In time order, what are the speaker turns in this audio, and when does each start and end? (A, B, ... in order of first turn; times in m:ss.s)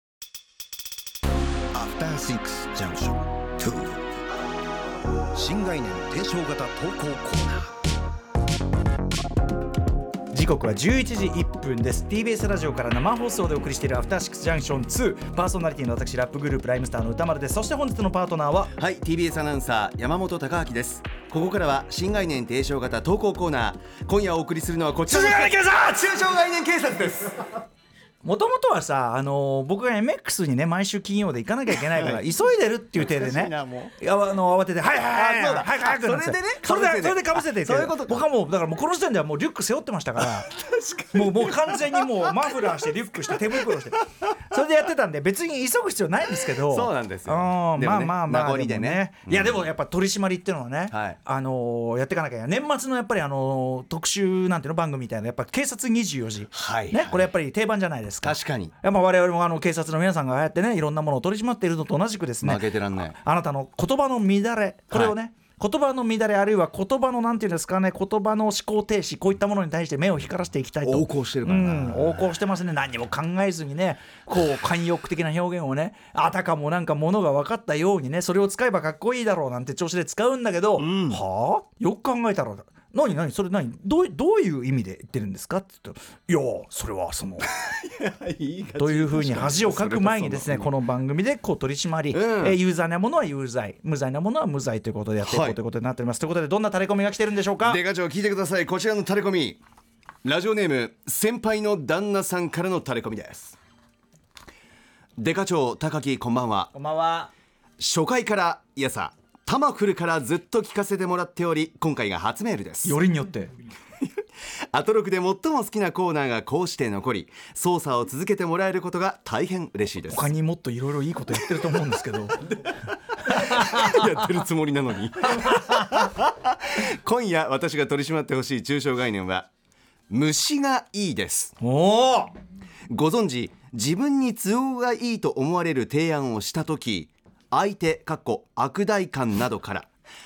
0:01.7-0:04.0 A
0:05.3-0:07.7 A
0:05.6-0:06.4 B
0:10.3-0:18.7 C
0:18.8-0:27.6 B
0:25.1-0:26.0 C
0:28.2-0:40.6 C
0:32.0-0:32.2 B
0:33.0-0:33.9 B
0:35.1-0:38.2 B
0:40.2-0:42.0 B
0:41.1-1:27.5 C
0:46.6-0:49.6 B
0:50.9-0:51.2 B
0:56.5-0:57.3 B
0:58.2-0:58.7 B
1:02.4-1:03.2 B
1:10.8-1:12.2 B
1:20.8-1:21.2 B
1:27.4-1:30.7 B
1:28.8-1:37.8 C
1:32.1-1:32.6 B
1:35.2-1:35.6 B
1:37.6-1:39.6 B
1:40.2-1:43.5 B
1:45.2-1:46.7 B
1:46.7-1:47.3 C
1:47.8-1:52.9 B
1:52.8-1:53.5 C
1:54.7-2:00.3 B
2:00.1-2:02.5 C
2:02.5-2:09.5 B
2:03.2-2:04.2 C
2:10.1-2:11.5 B
2:11.6-2:12.3 C
2:12.9-2:19.9 B